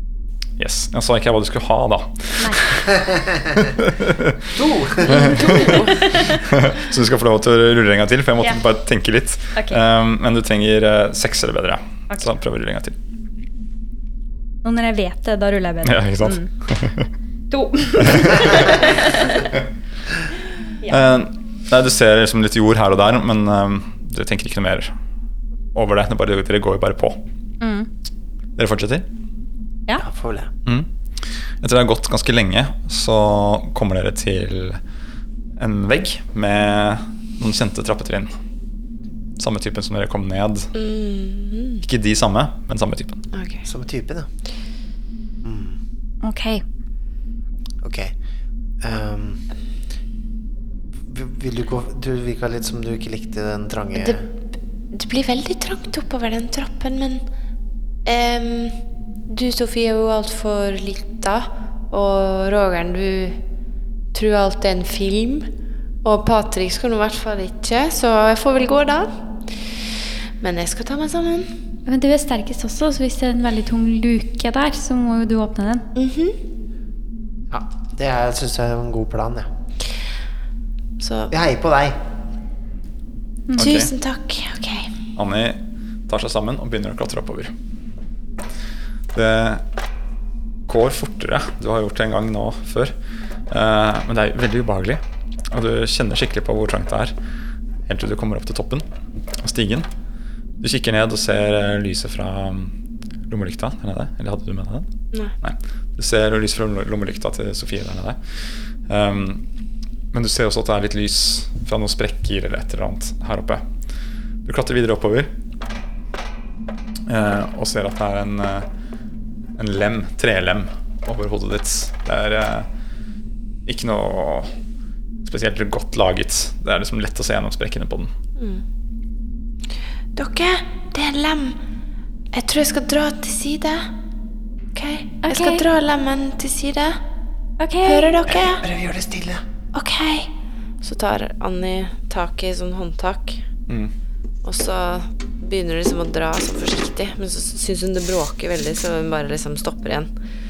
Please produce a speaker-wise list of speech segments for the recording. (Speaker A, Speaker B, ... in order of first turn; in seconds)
Speaker A: 0.6-3.0, 3.5-4.5, 5.1-13.0, 15.8-17.1, 18.0-18.8, 20.9-24.9, 25.7-27.2, 28.6-29.1, 30.6-34.8, 35.6-38.4, 39.4-40.7, 41.8-43.2, 83.5-83.9, 85.2-87.5, 89.1-89.6, 90.7-92.9, 93.5-97.1, 97.8-98.9, 99.4-99.9, 100.6-102.7, 103.3-104.9, 105.4-108.2, 108.9-109.4, 110.1-113.6, 114.4-115.3, 117.1-118.7, 119.6-122.7, 123.7-124.5, 125.2-128.1
Speaker B: 4.5-5.5, 30.0-30.5, 43.6-44.3, 45.4-45.8, 47.8-48.1, 48.8-49.4, 50.9-54.2, 77.5-79.5, 81.3-82.0, 138.3-139.4
Speaker C: 5.1-6.4, 14.6-16.5, 17.5-19.4, 27.6-27.9, 46.2-46.6, 71.8-75.8, 83.5-83.8, 135.2-135.6, 137.6-138.1
Speaker D: 5.2-6.1, 40.7-41.8, 43.3-43.6, 54.9-57.2, 58.0-63.4, 64.1-65.5, 66.0-69.2, 70.4-71.5, 76.0-76.4, 81.0-81.3, 83.6-84.9, 128.4-128.6, 130.1-131.6, 132.3-133.9, 134.7-137.0, 137.8-138.6, 139.7-143.4, 144.4-150.1